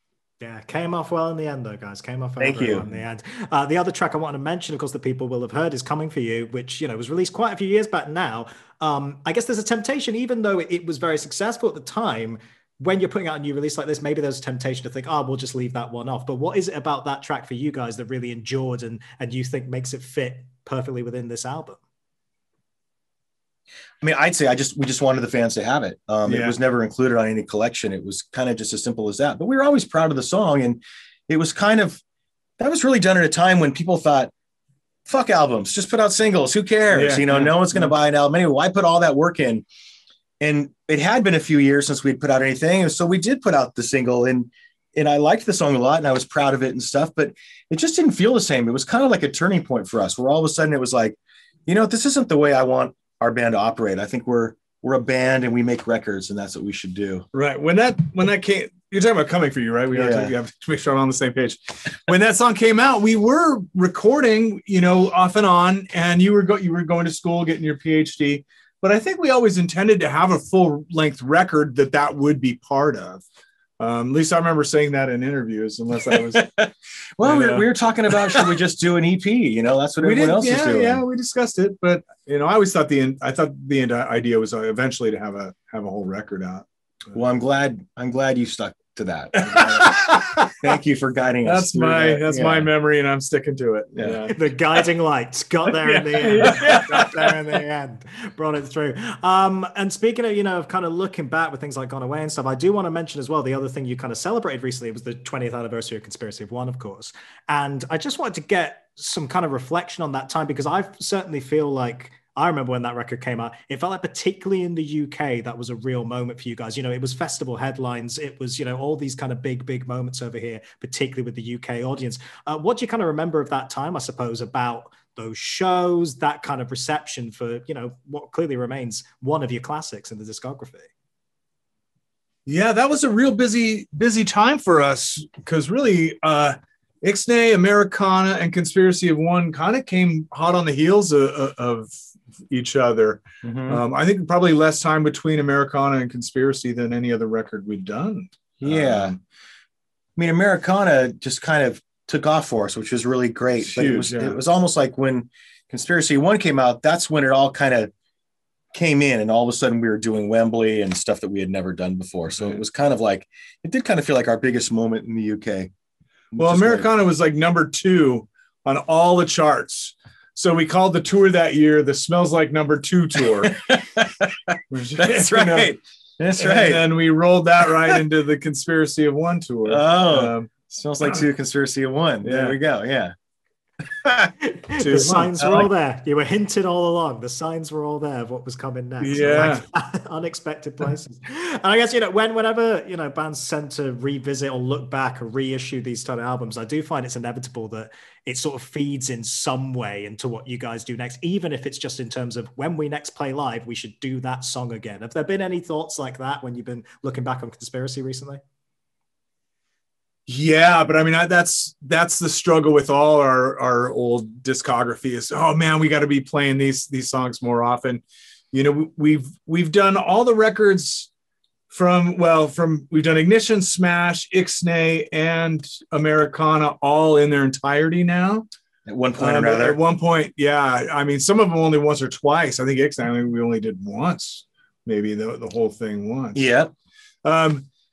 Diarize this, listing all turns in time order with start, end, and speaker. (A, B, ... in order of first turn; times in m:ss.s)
0:00.4-0:21.8 A
0:02.4-0:02.8 B
0:24.0-0:32.0 B
0:26.2-0:26.6 C
0:32.6-0:34.3 B
0:35.1-0:39.6 B
0:36.9-0:37.9 C
0:40.4-0:57.2 B
0:57.3-1:13.2 C
0:59.9-1:00.3 B
1:13.8-1:16.5 C
1:16.1-1:21.0 B
1:17.2-1:18.6 C
1:20.0-1:26.6 C
1:27.1-1:30.0 B
1:29.3-1:30.6 C
1:30.6-1:32.7 B
1:31.4-1:34.4 C
1:34.0-1:34.2 B
1:34.3-2:10.9 A
1:35.7-1:37.3 C
2:12.5-2:21.9 C
2:22.5-2:29.2 C
2:23.4-2:23.8 B
2:28.6-2:29.1 B
2:30.2-2:37.9 B
2:33.6-2:34.4 C
2:38.7-2:45.7 B
2:42.4-2:42.6 C
2:46.3-2:46.9 B
2:46.4-2:53.5 C
2:53.4-2:56.8 B
2:54.7-2:55.7 C
2:56.4-3:00.5 C
2:59.6-3:03.1 B
3:02.2-3:02.6 C
3:03.9-3:04.3 B
3:04.4-3:28.4 A
3:04.8-3:05.3 C
3:05.2-3:05.7 B
3:09.0-3:09.6 C
3:30.3-3:41.1 C
3:41.7-3:48.5 C
3:48.9-3:49.8 B
3:49.2-3:56.5 C
3:56.4-3:56.7 B
3:57.2-3:57.6 C